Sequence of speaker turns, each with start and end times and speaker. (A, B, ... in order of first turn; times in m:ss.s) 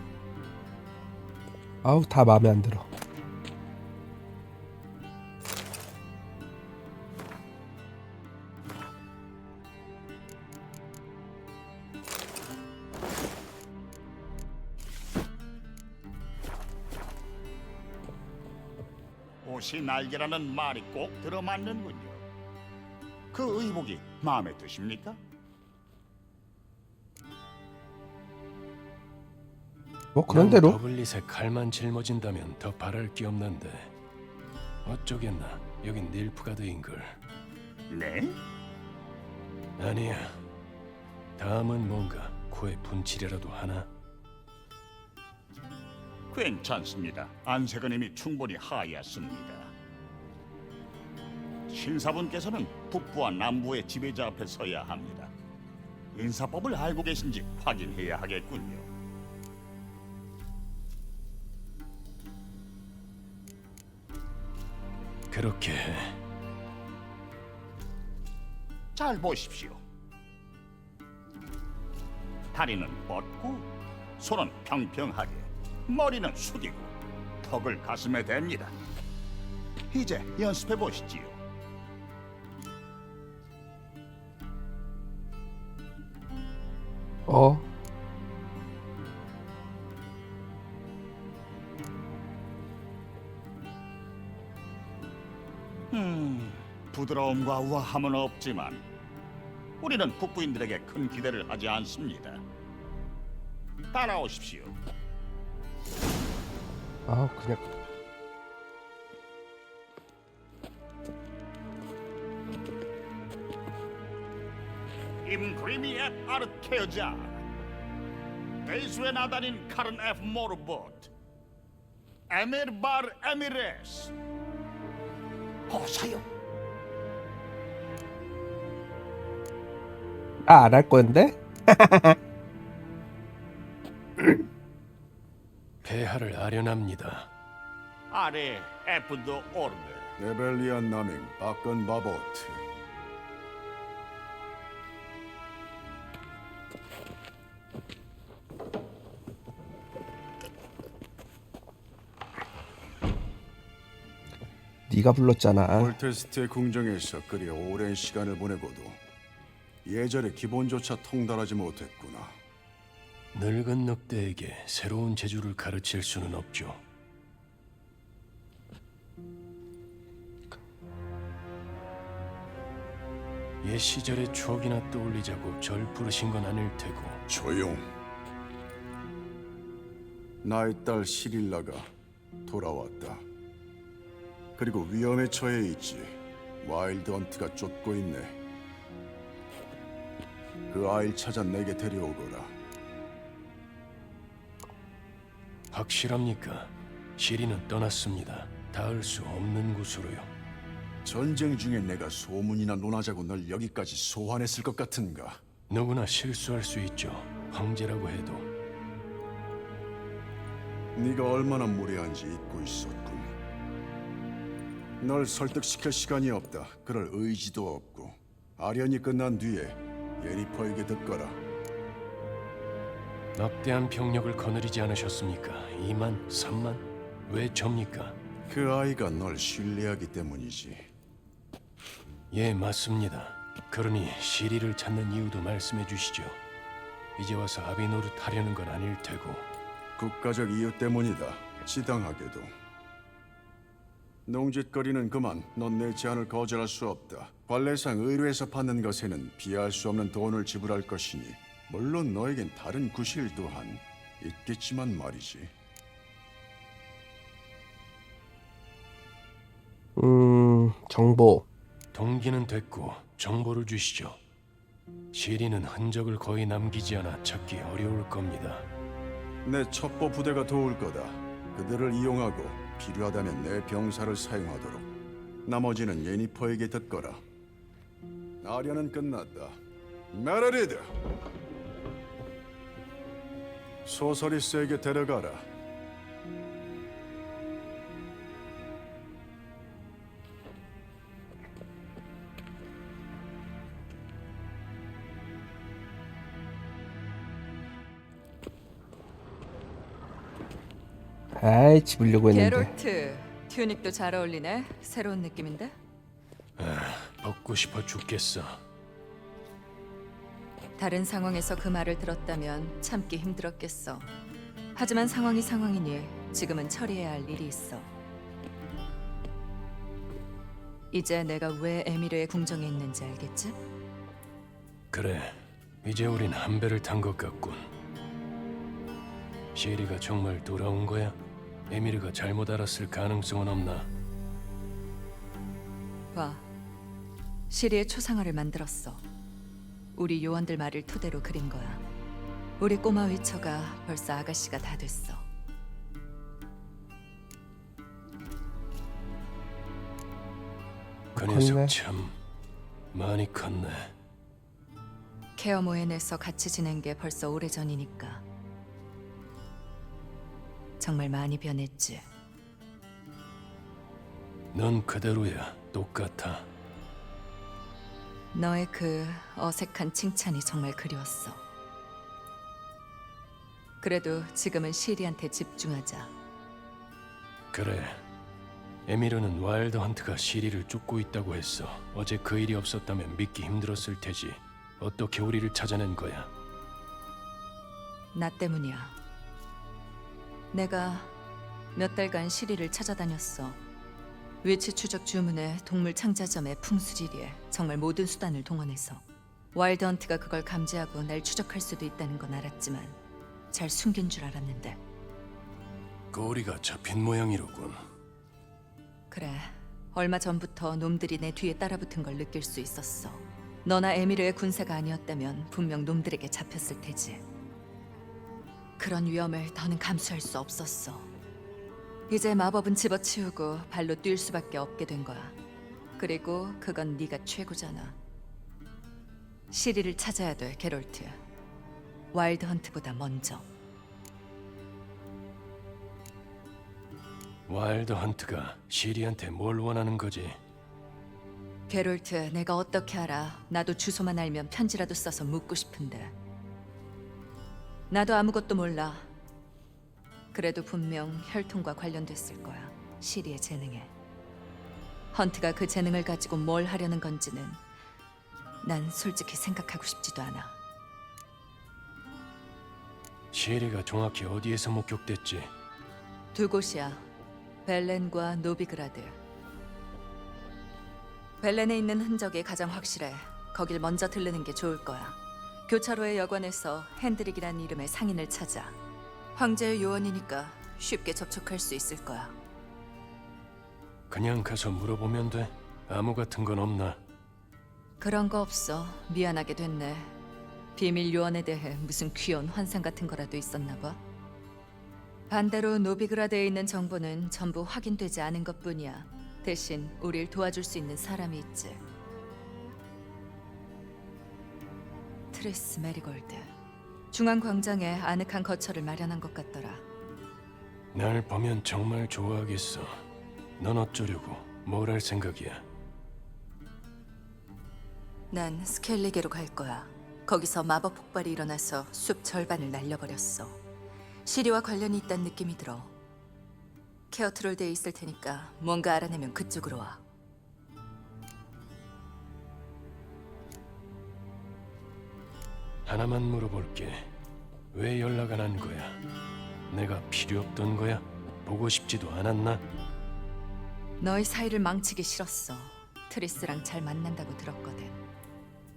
0:01.8-0:02.9 A
0:19.4-0:22.2 B
0:23.3-0:25.2 B
0:30.2-0:30.8 A
0:30.3-0:33.9 C
0:34.8-0:37.2 C
0:37.9-0:38.4 B
0:39.8-0:40.4 C
0:41.4-0:43.9 C
0:46.3-0:49.7 B
0:51.7-0:55.3 B
0:56.1-0:58.9 B
1:05.3-1:06.2 C
1:09.0-1:09.8 B
1:12.5-1:18.8 B
1:19.9-1:21.4 B
1:27.3-1:27.6 A
1:35.9-1:38.8 B
1:39.8-1:42.4 B
1:43.9-1:44.8 B
1:47.1-1:47.6 A
1:55.2-1:57.4 B
1:58.6-2:01.1 B
2:02.3-2:04.1 B
2:05.7-2:06.3 B
2:10.5-2:12.2 A
2:15.8-2:17.3 C
2:18.1-2:20.1 B
2:20.2-2:22.6 D
2:34.9-2:35.9 A
2:35.6-2:39.0 D
2:39.8-2:42.4 D
2:43.3-2:46.8 C
2:53.6-2:57.2 C
2:57.3-2:57.8 D
3:00.4-3:01.9 D
3:02.5-3:03.2 D
3:04.6-3:08.4 D
3:10.7-3:12.5 D
3:15.7-3:20.3 C
3:21.0-3:25.4 D
3:25.7-3:28.5 C
3:31.0-3:33.3 D
3:35.0-3:41.4 D
3:43.4-3:48.2 C
3:48.5-3:50.8 D
3:52.3-3:56.4 C
3:57.2-3:59.5 C
4:00.0-4:02.5 D
4:04.3-4:15.5 D
4:20.0-4:21.5 A
4:21.9-4:24.2 C
4:25.1-4:28.7 C
4:29.4-4:34.9 D
4:35.5-4:37.2 D
4:38.4-4:39.6 D
4:40.1-4:40.9 D
4:43.9-4:45.4 D
5:01.4-5:02.7 A
5:02.3-5:05.8 E
5:06.6-5:08.6 C
5:10.8-5:14.1 E
5:14.7-5:17.9 E
5:20.9-5:23.6 E
5:24.9-5:27.7 C
5:29.5-5:31.2 C
5:31.7-5:33.9 C
5:36.1-5:36.5 E
5:37.5-5:39.0 E
5:40.0-5:41.8 E
5:42.6-5:45.2 E
5:51.2-5:52.2 C
5:51.2-5:51.7 A
5:52.9-5:53.9 C
5:55.4-5:58.2 E
6:00.8-6:02.0 E
6:04.5-6:06.5 C
6:08.3-6:11.4 E
6:13.8-6:16.1 E
6:17.5-6:18.0 C
6:18.9-6:26.3 C
6:28.1-6:29.0 E
6:30.5-6:31.1 E
6:31.7-6:33.6 E
6:34.4-6:43.0 E
6:43.5-6:44.8 E
6:46.1-6:47.8 C
6:49.1-6:57.2 E
6:58.8-7:01.1 E
7:02.1-7:05.4 E
7:06.0-7:08.0 E
7:09.5-7:11.2 E
7:12.1-7:13.5 E
7:17.5-7:20.4 C
7:21.7-7:26.1 E
7:27.9-7:29.1 E
7:30.3-7:33.9 E
7:35.1-7:37.6 E
7:38.6-7:40.6 E
7:43.3-7:45.5 C
7:46.3-7:47.1 E
7:47.6-7:49.2 E
7:51.4-7:58.8 E
7:59.3-8:02.4 E
8:04.1-8:07.0 C
8:08.0-8:10.1 E
8:10.8-8:14.0 E
8:15.3-8:21.8 E
8:25.3-8:26.5 E
8:27.1-8:29.8 E
8:30.9-8:32.9 C
8:33.6-8:35.6 C
8:38.3-8:43.6 E
8:44.2-8:45.9 E
8:47.1-8:50.0 E
8:55.8-8:57.1 C
8:57.7-8:59.0 C
8:59.7-9:02.6 C
9:04.0-9:08.0 E